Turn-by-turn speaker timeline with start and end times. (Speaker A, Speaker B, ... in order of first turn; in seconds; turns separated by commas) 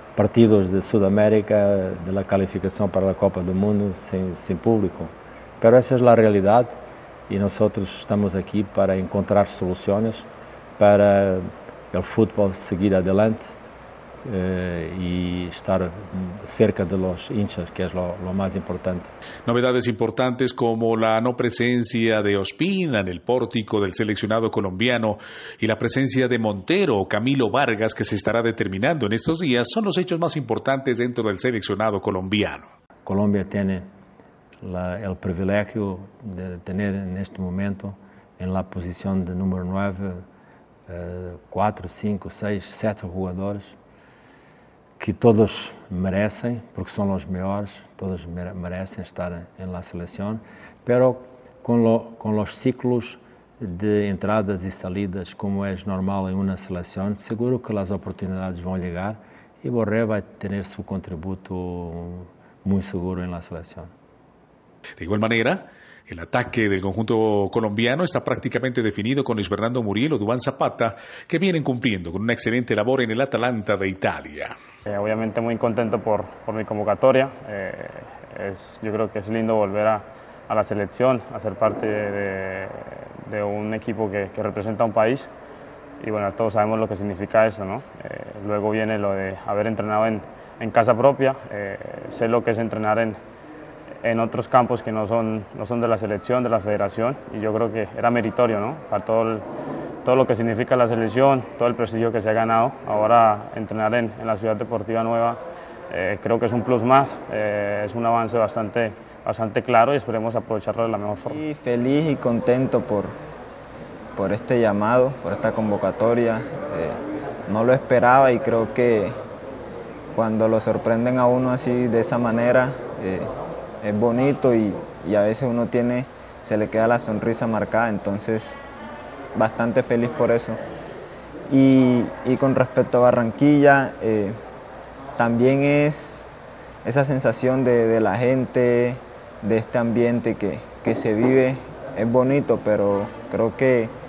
Speaker A: 0.1-6.8, Speaker A: 7.3-13.6, Speaker A: 14.2-19.1, Speaker B: 19.4-32.7, Speaker A: 33.0-33.9, Speaker A: 34.6-40.2, Speaker A: 40.9-43.8, Speaker A: 45.0-63.9, Speaker B: 65.0-74.5, Speaker C: 74.9-85.3, Speaker C: 86.0-93.2, Speaker C: 94.0-99.4, Speaker C: 100.0-111.4, Speaker D: 111.3-113.1, Speaker D: 114.2-119.2, Speaker D: 120.1-123.3, Speaker D: 123.8-128.6, Speaker D: 129.3-130.6, Speaker D: 131.5-134.4, Speaker D: 135.2-136.3, Speaker D: 136.8-143.9